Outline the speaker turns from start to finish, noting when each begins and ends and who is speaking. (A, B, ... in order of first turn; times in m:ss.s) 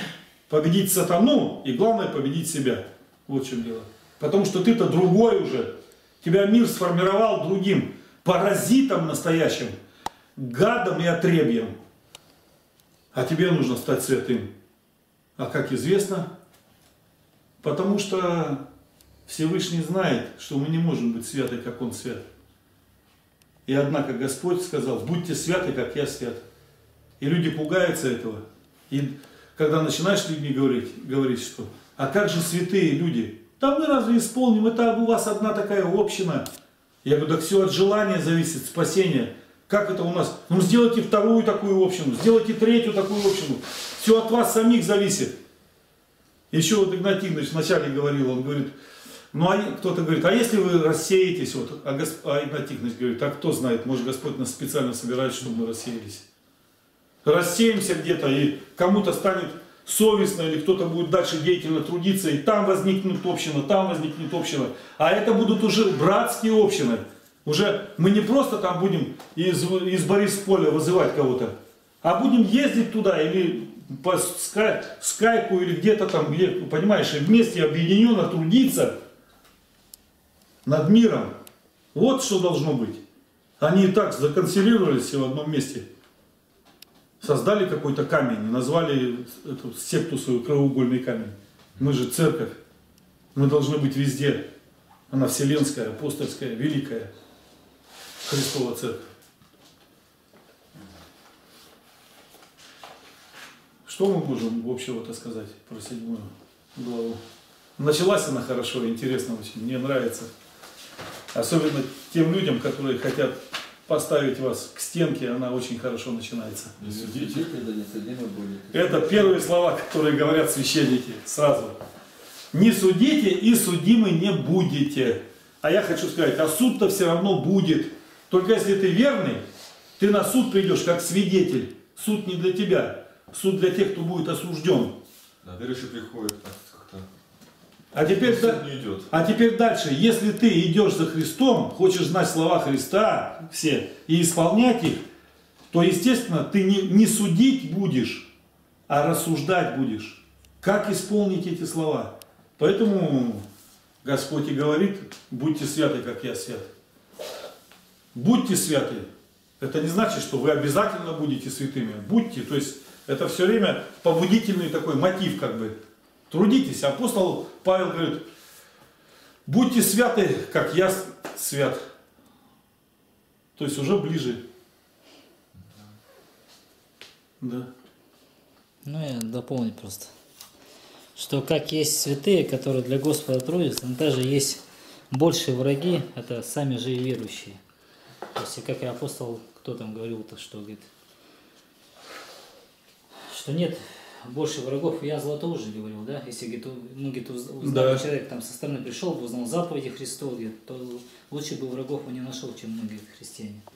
0:00.5-0:09.7 A
0:10.4-0:11.7 A
0:13.1-0:14.5 A
0:15.4-0:16.3 A
0:17.6-0:18.6 A
0:19.3-0:22.2 A
0:23.7-0:26.4 A
0:27.2-0:36.5 A
0:37.0-0:45.3 A
0:46.5-0:48.7 A
0:49.3-0:56.2 A
0:57.2-1:19.0 A
1:20.6-1:21.3 A
1:21.9-1:23.0 A
1:23.6-1:25.8 A
1:27.2-1:32.6 A
1:33.3-1:34.5 A
1:35.1-1:37.1 A
1:38.2-1:39.0 A
1:43.8-1:47.2 A
1:47.8-1:50.3 A
1:51.3-1:56.8 A
1:56.8-1:57.4 B
1:56.8-1:59.4 C
1:58.7-2:01.8 A
2:02.5-2:09.4 A
2:10.0-2:15.0 A
2:15.4-2:17.0 B
2:17.9-2:25.0 A
2:18.2-2:19.2 B
2:25.7-2:28.3 A
2:28.9-2:33.4 A
2:34.0-2:36.7 A
2:38.1-2:39.0 A
2:39.6-2:45.8 A
2:46.3-2:48.3 A
2:49.4-2:51.9 A
2:53.6-2:54.4 A
2:57.4-2:57.7 A
2:58.8-3:00.1 D
3:01.1-3:07.6 D
3:08.3-3:10.9 D
3:13.3-3:23.6 D
3:17.6-3:18.0 A